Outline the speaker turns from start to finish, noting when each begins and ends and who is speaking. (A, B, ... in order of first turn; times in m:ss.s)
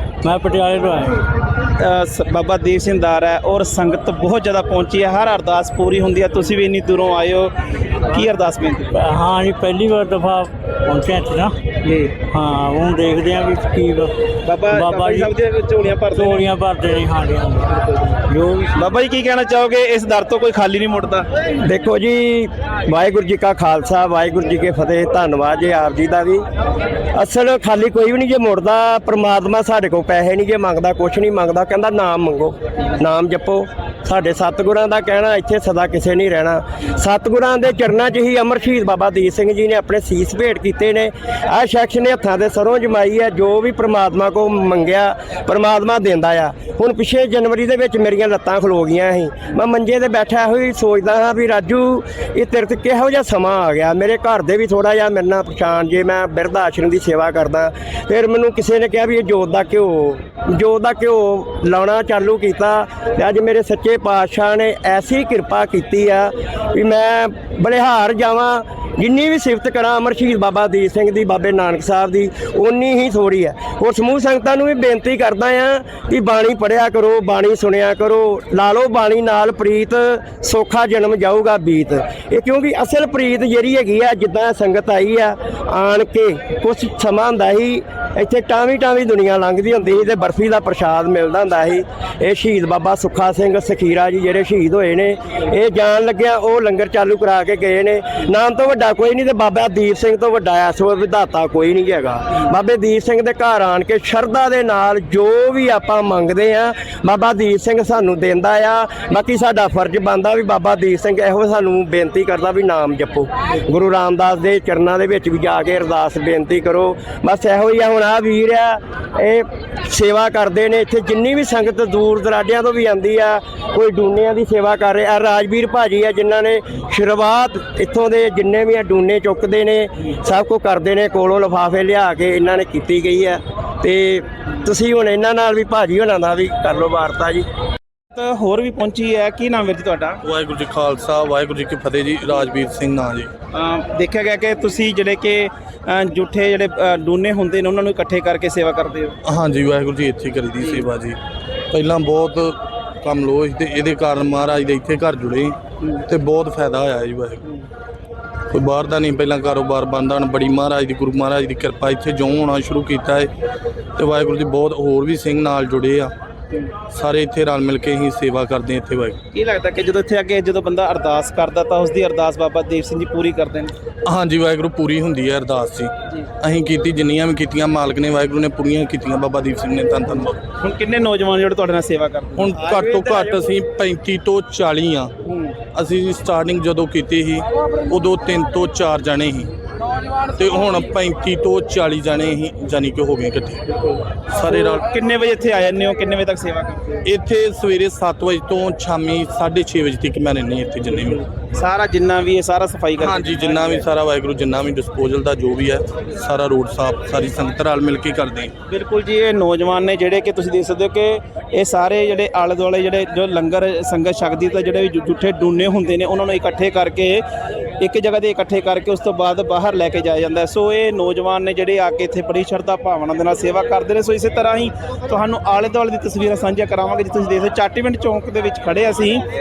0:00.2-0:01.2 A
0:01.7-0:09.0 B
0:08.9-0:11.6 A
0:11.8-0:12.2 B
0:12.2-0:14.1 A
0:14.4-0:16.5 B
0:14.7-0:15.3 A
0:16.1-0:18.7 A
0:18.7-0:21.3 B
0:21.6-0:26.4 C
0:27.1-2:17.4 C
2:18.1-2:20.2 B
2:20.2-2:23.3 D
2:23.5-2:29.1 B
2:29.3-2:31.2 D
2:30.6-2:30.9 B
2:31.7-2:35.6 D
2:36.1-2:37.4 D
2:38.5-2:43.3 D
2:44.0-2:46.1 D
2:46.9-2:49.2 D
2:49.3-2:53.7 B
2:54.0-3:00.4 D
3:00.6-3:03.4 B
3:02.4-3:05.1 D
3:05.2-3:05.5 B
3:05.7-3:09.5 D
3:10.4-3:13.8 D
3:14.3-3:14.8 D
3:14.5-3:17.0 B
3:17.1-3:21.2 D
3:21.5-3:23.8 B
3:23.0-3:28.5 D
3:28.7-3:37.2 B
3:37.8-3:49.2 B